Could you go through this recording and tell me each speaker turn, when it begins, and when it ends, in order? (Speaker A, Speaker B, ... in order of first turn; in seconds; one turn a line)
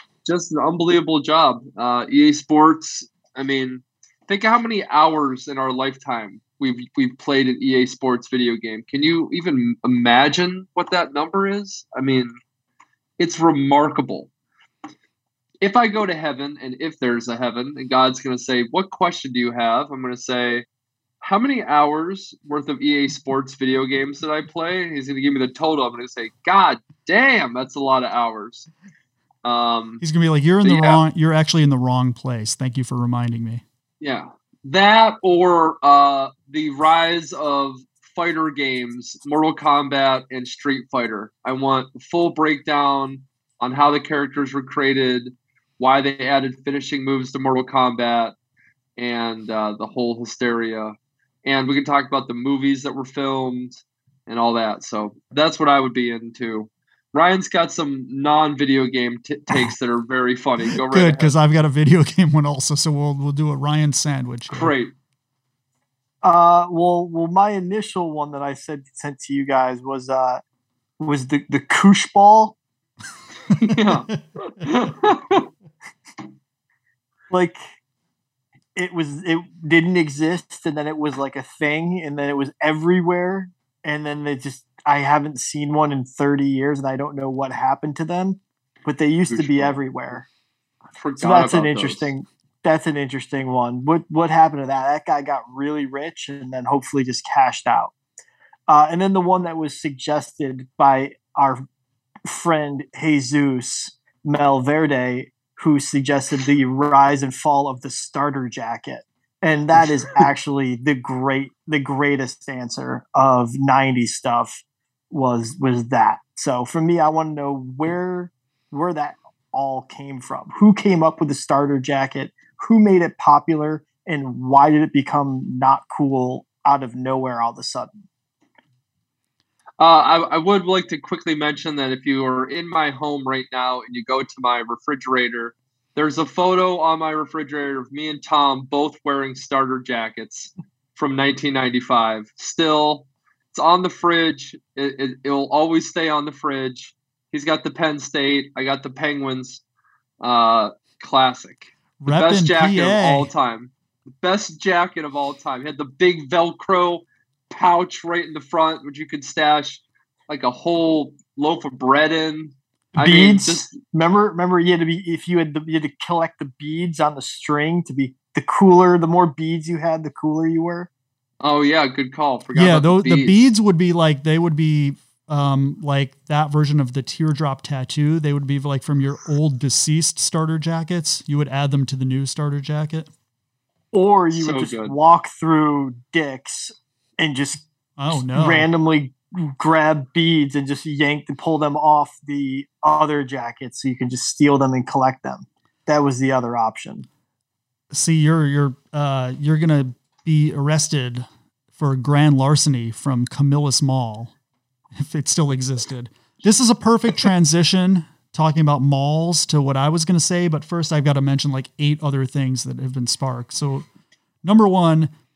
Speaker A: 0.2-12.3
Speaker A: 13.2-14.3
Speaker A: 15.6-20.6
Speaker A: 21.2-28.7
Speaker A: 29.4-30.0
Speaker B: 30.0-33.6
Speaker A: 30.6-31.0
Speaker A: 34.0-48.3
Speaker A: 49.0-61.3
Speaker B: 60.9-64.7
Speaker A: 64.5-64.9
Speaker C: 66.2-70.4
Speaker C: 71.0-72.6
Speaker A: 73.5-75.4
Speaker B: 73.9-74.1
Speaker C: 77.3-77.7
Speaker C: 78.8-90.3
Speaker A: 89.3-89.8
Speaker A: 91.0-92.1
Speaker C: 91.2-97.9
Speaker C: 98.7-101.6
Speaker C: 102.2-128.0
Speaker A: 129.8-149.6
Speaker A: 150.2-163.7
Speaker B: 152.0-153.3
Speaker C: 163.0-170.9
Speaker A: 171.4-173.5
Speaker B: 172.6-183.1
Speaker C: 183.9-197.1
Speaker A: 184.3-184.9
Speaker B: 188.0-188.7
Speaker B: 197.9-204.3
Speaker B: 204.9-213.9
Speaker B: 214.4-215.1